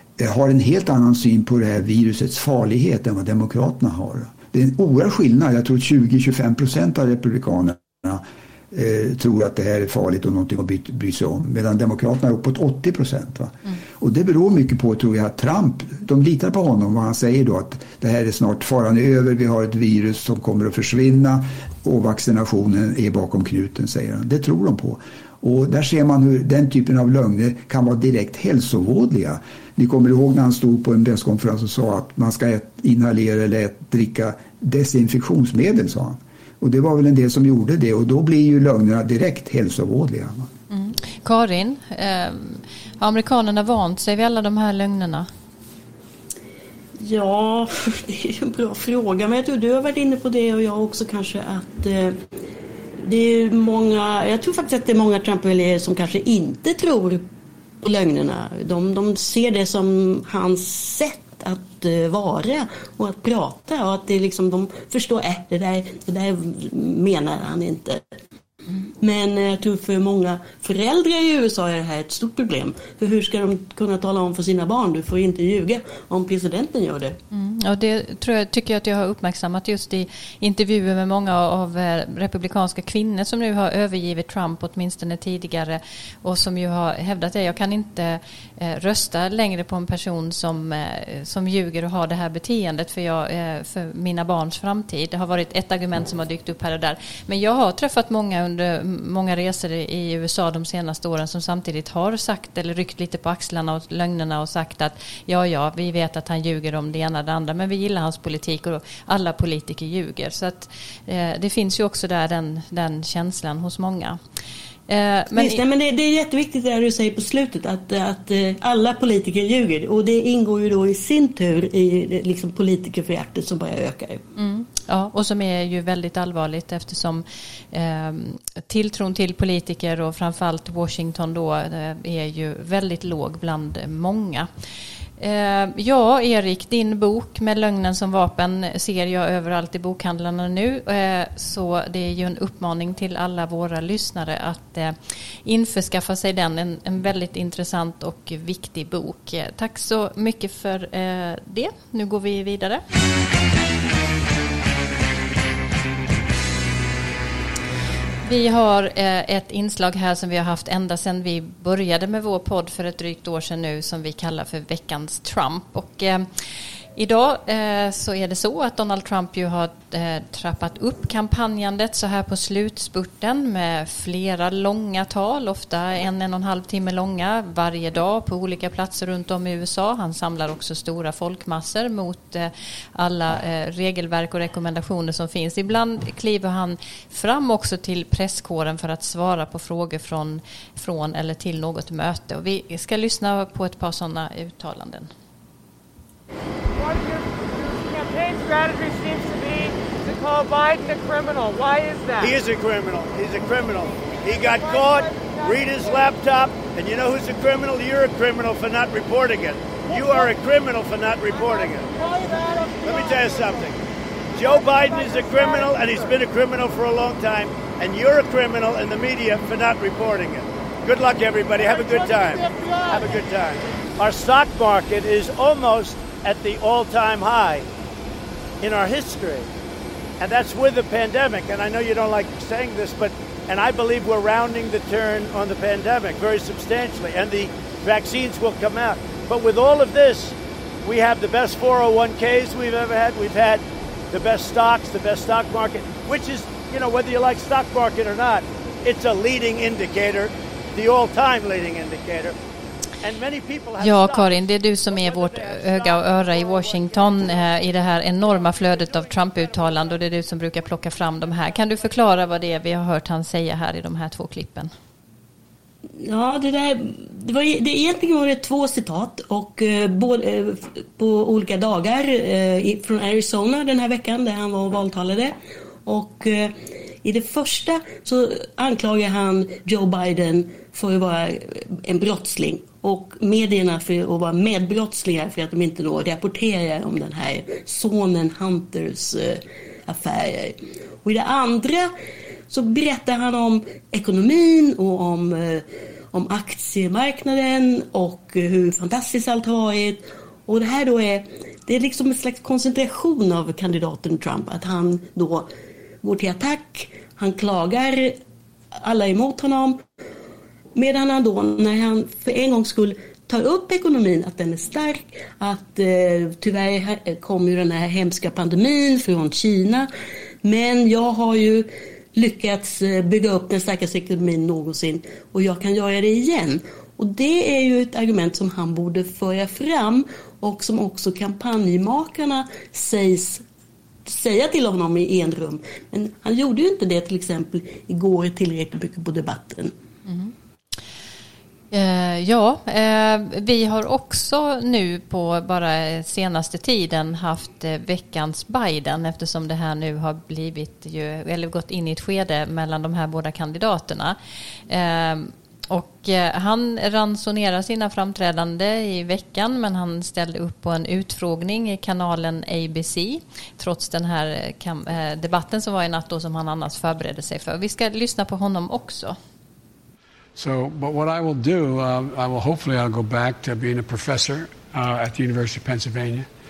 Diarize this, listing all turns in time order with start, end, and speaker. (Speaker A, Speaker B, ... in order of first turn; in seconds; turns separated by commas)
Speaker A: 0.2-40.5, Speaker B: 40.7-45.3, Speaker C: 47.0-52.2, Speaker C: 53.0-57.2, Speaker C: 57.8-68.0, Speaker C: 69.0-77.2, Speaker B: 77.3-114.2, Speaker B: 114.9-115.6, Speaker C: 115.3-124.2, Speaker B: 124.3-134.5, Speaker B: 135.2-152.8, Speaker B: 158.2-166.3, Speaker B: 166.9-195.1, Speaker D: 196.8-202.4, Speaker E: 202.2-211.9, Speaker D: 204.5-205.5, Speaker D: 209.9-210.2, Speaker D: 212.0-212.9, Speaker E: 213.0-213.7, Speaker E: 214.3-222.4, Speaker E: 222.9-227.7, Speaker E: 228.6-229.5, Speaker E: 230.2-252.3, Speaker E: 253.0-254.3, Speaker B: 253.8-264.7, Speaker E: 254.9-256.5, Speaker C: 266.0-275.3, Speaker C: 275.9-291.9, Speaker C: 292.5-305.5, Speaker C: 306.0-308.1, Speaker C: 308.7-309.8, Speaker C: 310.7-319.9, Speaker C: 320.4-333.4, Speaker C: 334.1-339.7, Speaker B: 340.1-340.3, Speaker B: 341.7-354.2, Speaker B: 354.7-369.1, Speaker F: 370.4-376.3